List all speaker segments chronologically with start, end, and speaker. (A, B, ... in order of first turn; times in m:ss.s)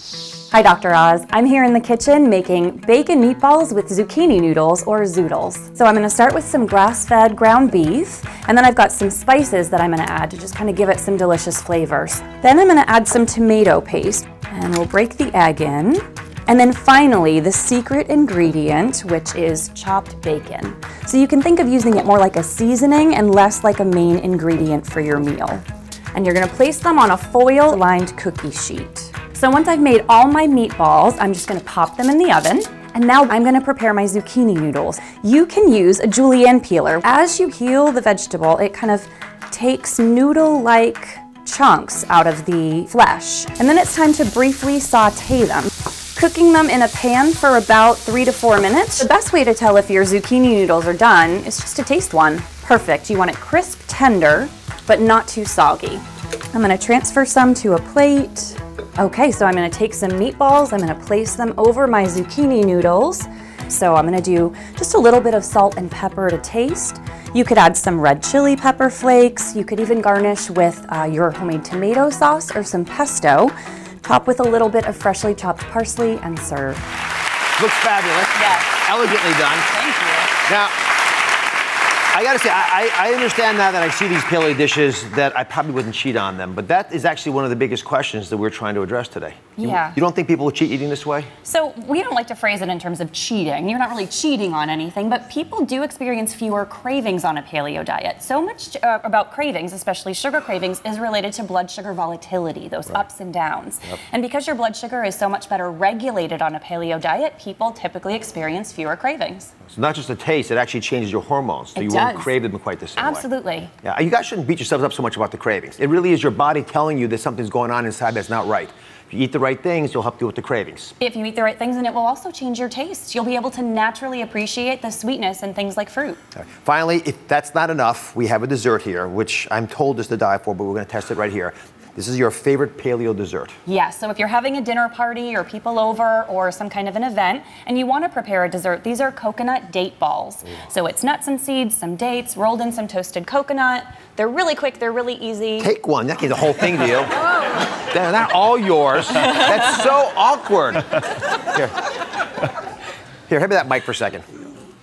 0:00.5-1:16.8 A
1:17.6-1:19.7 B
1:18.4-1:18.6 A
1:19.7-1:20.3 A
1:20.5-1:20.7 B
1:22.1-1:31.3 B
1:29.6-1:30.0 A
1:31.4-1:49.5 A
1:49.7-1:53.2 B
1:51.7-1:52.3 A
1:53.0-1:53.7 A
1:53.8-2:00.9 B
2:01.0-2:06.2 A
2:06.3-2:13.6 B
2:13.6-2:25.7 A
2:25.6-2:27.1 B
2:27.9-2:31.8 B
2:33.3-2:34.3 B